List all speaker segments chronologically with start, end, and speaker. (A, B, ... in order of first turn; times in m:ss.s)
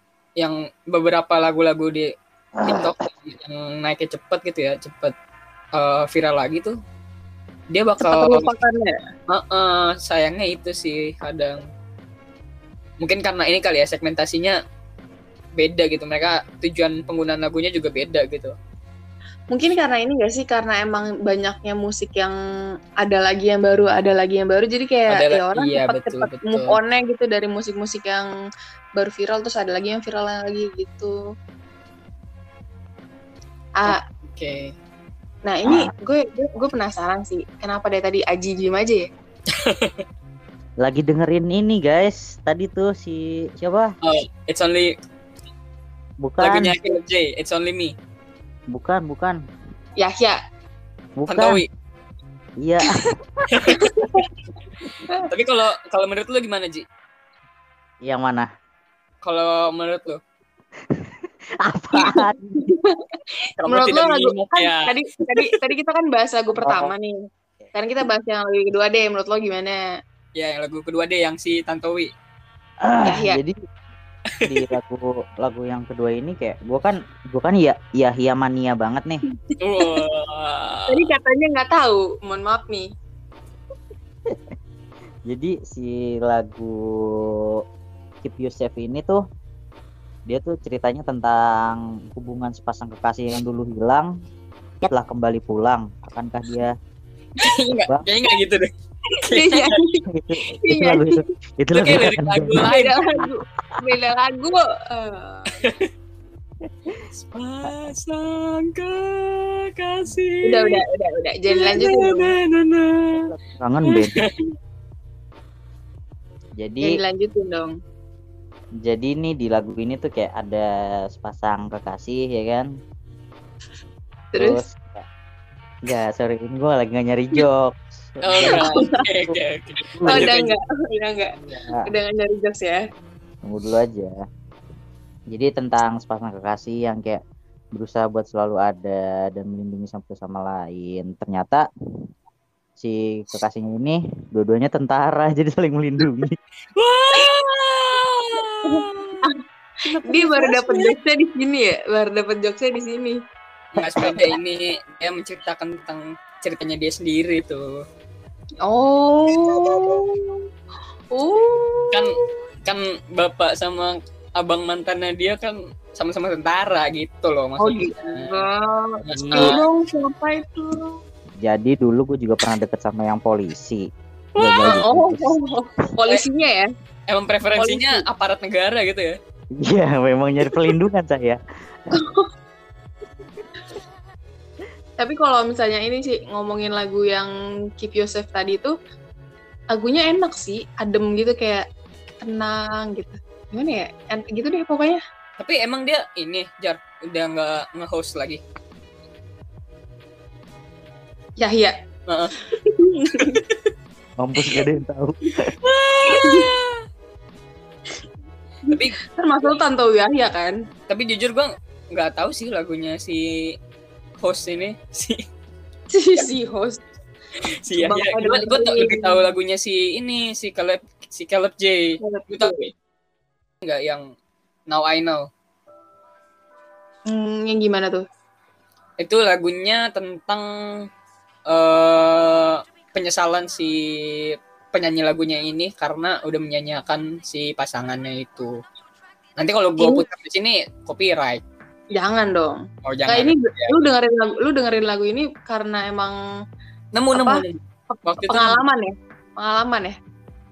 0:00.4-0:02.1 A
0:02.6-0:02.9 B
0:02.6-0:05.1 A
0:05.7-0:06.7 A
0:07.7-0:08.5 A
0:08.0-0:08.9 C
0:09.3-0:11.6 A
0:13.0-0:14.6 A
0:15.6-0:18.5 A
0:19.5-0:22.4 C
0:23.0-0:28.3 C
0:25.1-0:26.8 A
0:29.0-0:31.2 C
0:33.8-0:34.7 A
0:35.4-0:39.1 C
0:39.5-0:40.0 A
0:40.8-0:43.9 B
0:44.0-0:44.9 A
0:46.2-0:46.8 B
0:46.4-0:47.9 A
0:48.7-0:49.4 B
0:50.0-0:50.4 C
0:51.2-0:51.6 B
0:51.3-0:51.7 A
0:52.6-0:53.8 B
0:53.5-0:54.0 A
0:53.6-0:54.3 C
0:55.2-0:56.8 A
0:58.0-0:58.5 B
0:59.2-1:00.2 A
1:00.9-1:02.7 B
1:02.0-1:07.2 C
1:03.6-1:04.9 A
1:06.5-1:06.9 B
1:07.7-1:09.8 C
1:10.3-1:12.1 A
1:12.8-1:13.6 B
1:13.0-1:13.4 C
1:14.4-1:19.2 B
1:19.6-1:21.1 A
1:20.9-1:22.9 C
1:25.3-1:27.6 B
1:28.2-1:29.2 B
1:30.3-1:34.1 B
1:34.8-1:36.7 B
1:37.4-1:39.7 A
1:39.3-1:41.2 C
1:40.1-1:42.8 B
1:41.7-1:43.2 A
1:42.6-1:45.6 C
1:45.6-1:45.8 A
1:47.1-1:50.8 A
1:50.4-1:52.3 C
1:51.5-1:53.3 A
1:53.2-1:54.2 B
1:53.8-1:54.4 A
1:56.6-1:56.9 B
1:56.8-1:57.7 C
1:58.8-2:02.7 B
2:04.3-2:04.6 C
2:04.4-2:05.0 B
2:05.8-2:10.4 B
2:08.2-2:10.5 A
2:08.5-2:09.0 C
2:10.1-2:12.8 C
2:11.4-2:11.8 B
2:13.4-2:14.1 B
2:15.3-2:17.2 B
2:17.7-2:21.6 B
2:22.8-2:26.3 B
2:26.8-2:29.2 A
2:28.6-2:33.2 C
2:30.0-2:30.9 A
2:33.7-2:37.7 A
2:33.9-2:34.3 C
2:38.6-2:40.4 C
2:41.1-2:42.0 C
2:41.9-2:48.4 A
2:47.6-2:51.0 C
2:49.0-2:49.6 A
2:49.1-2:49.6 B
2:51.4-2:55.4 B
2:54.4-2:54.8 A
2:54.8-2:56.7 C
2:57.1-2:59.2 A
2:57.6-2:58.0 C
2:59.6-3:01.4 B
3:01.9-3:02.3 C
3:05.0-3:08.7 C
3:09.7-3:11.6 C
3:12.2-3:15.0 C
3:15.4-3:18.4 A
3:21.4-3:21.7 C
3:22.1-3:22.3 A
3:22.5-3:23.4 C
3:23.2-3:23.6 A
3:24.2-3:25.5 B
3:25.6-3:26.8 A
3:26.1-3:26.5 C
3:28.7-3:30.6 C
3:28.7-3:29.6 A
3:30.9-3:33.6 A
3:34.2-3:35.2 A
3:35.9-3:36.8 C
3:37.6-3:42.6 A
3:37.7-3:39.3 C
3:42.0-3:42.7 C
3:43.6-3:44.1 A
3:44.7-3:45.3 A
3:47.0-3:48.0 C
3:49.0-3:50.9 A
3:51.5-3:58.6 A
3:59.4-4:01.4 A
3:59.8-4:00.0 C
4:01.9-4:06.2 C
4:02.8-4:03.8 A
4:06.9-4:08.6 A
4:07.1-4:09.9 C